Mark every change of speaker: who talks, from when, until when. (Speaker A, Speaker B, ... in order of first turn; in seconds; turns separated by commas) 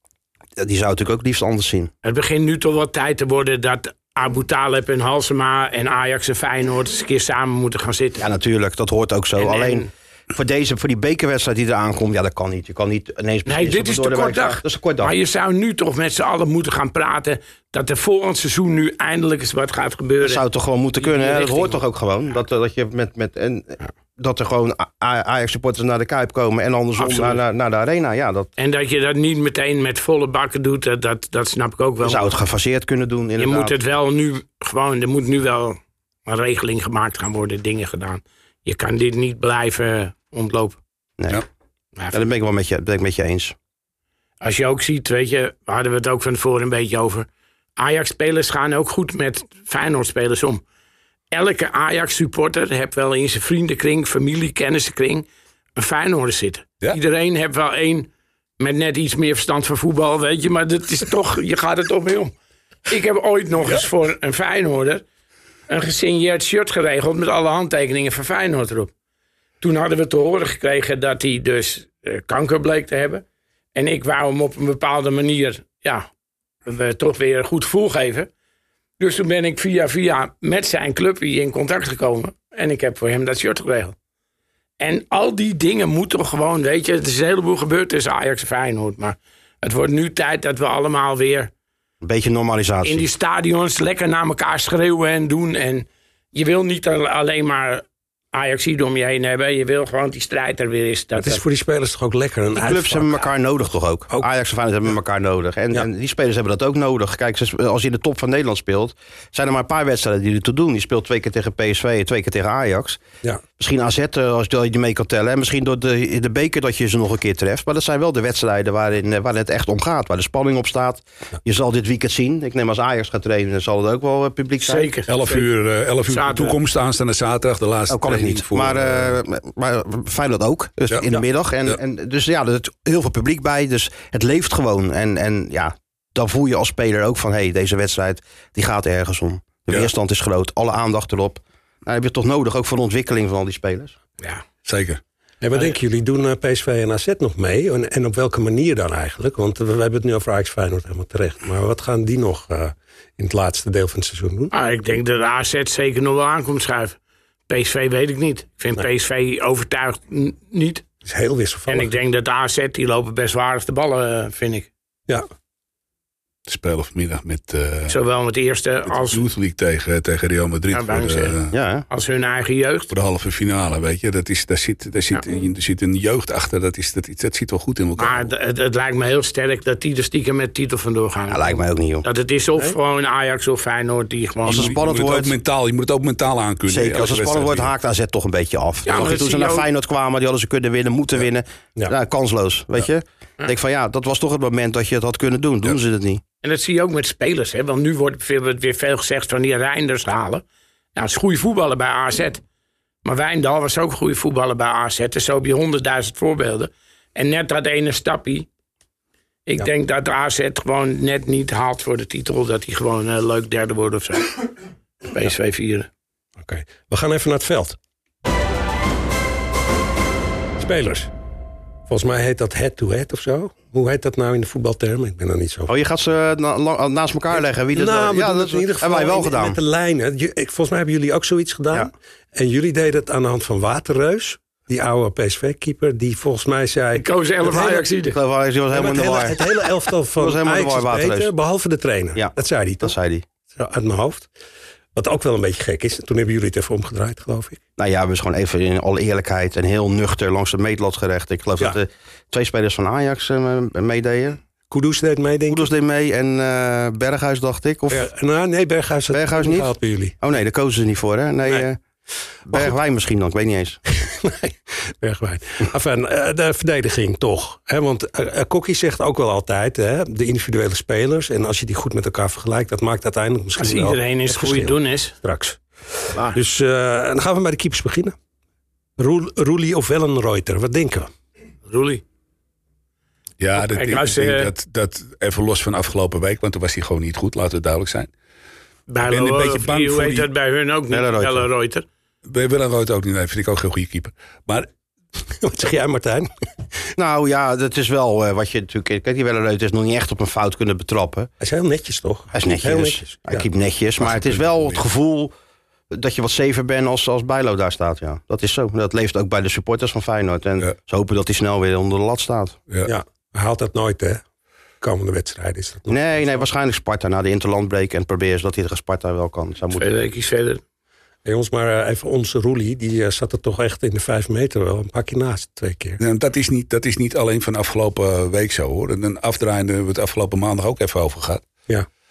Speaker A: 0.6-1.9, Speaker B: 2.0-8.2, Speaker A: 8.2-15.1, Speaker B: 9.4-9.9, Speaker B: 13.5-20.4, Speaker A: 20.2-28.5, Speaker B: 21.0-21.8, Speaker B: 27.0-27.4, Speaker B: 28.6-32.3, Speaker A: 32.0-33.7, Speaker B: 33.4-40.8, Speaker A: 41.2-41.4, Speaker B: 42.0-42.3, Speaker A: 42.1-43.5, Speaker B: 44.4-50.6, Speaker B: 51.3-62.3, Speaker B: 62.9-65.0, Speaker B: 65.7-68.9, Speaker B: 69.6-76.1, Speaker B: 76.7-78.3, Speaker B: 79.0-84.0, Speaker B: 84.8-91.5, Speaker A: 92.0-93.1, Speaker B: 92.8-101.4, Speaker C: 101.2-103.3, Speaker A: 102.6-113.0, Speaker A: 113.6-124.9, Speaker B: 124.6-125.5, Speaker D: 125.1-129.2, Speaker B: 126.1-126.6, Speaker A: 127.9-143.9, Speaker D: 144.7-145.0, Speaker C: 145.4-154.5, Speaker B: 154.5-157.0, Speaker B: 157.5-160.8, Speaker C: 161.1-161.9, Speaker B: 161.7-164.7, Speaker D: 166.5-168.0, Speaker B: 167.9-169.2, Speaker D: 168.9-171.5, Speaker B: 170.7-171.4, Speaker A: 171.5-171.9, Speaker B: 171.9-172.9, Speaker D: 172.9-178.3, Speaker B: 178.0-184.8, Speaker A: 181.3-182.1, Speaker A: 184.5-185.3, Speaker D: 184.5-187.7, Speaker A: 186.7-196.2, Speaker B: 188.9-189.7, Speaker B: 196.4-200.4, Speaker B: 200.9-202.4, Speaker B: 203.0-208.5, Speaker B: 209.5-214.4, Speaker B: 215.0-215.9, Speaker C: 216.4-217.8, Speaker C: 220.6-221.1, Speaker C: 221.9-225.7, Speaker A: 225.7-229.6, Speaker C: 227.4-237.9, Speaker B: 237.0-238.2, Speaker A: 238.1-239.4, Speaker C: 238.7-242.9, Speaker A: 240.2-241.3, Speaker A: 242.2-243.2, Speaker C: 243.5-244.3, Speaker C: 244.9-247.6, Speaker A: 247.8-254.4, Speaker C: 254.7-255.7, Speaker A: 255.5-258.1, Speaker C: 257.9-260.2, Speaker A: 259.1-261.8, Speaker A: 262.5-263.8, Speaker C: 263.9-278.1, Speaker B: 273.6-275.1, Speaker C: 279.0-281.1, Speaker B: 281.7-282.0, Speaker D: 283.4-288.1, Speaker B: 283.6-284.5, Speaker B: 288.9-291.9, Speaker D: 289.1-290.3, Speaker A: 290.9-291.5, Speaker D: 292.2-294.7, Speaker C: 295.3-296.3, Speaker A: 297.0-301.3, Speaker C: 301.4-303.5, Speaker A: 302.3-305.3, Speaker D: 304.0-304.8, Speaker A: 305.9-312.6, Speaker C: 312.9-314.2, Speaker C: 314.8-316.4, Speaker A: 315.9-319.9, Speaker B: 319.8-320.6, Speaker C: 321.2-326.0, Speaker D: 326.0-331.4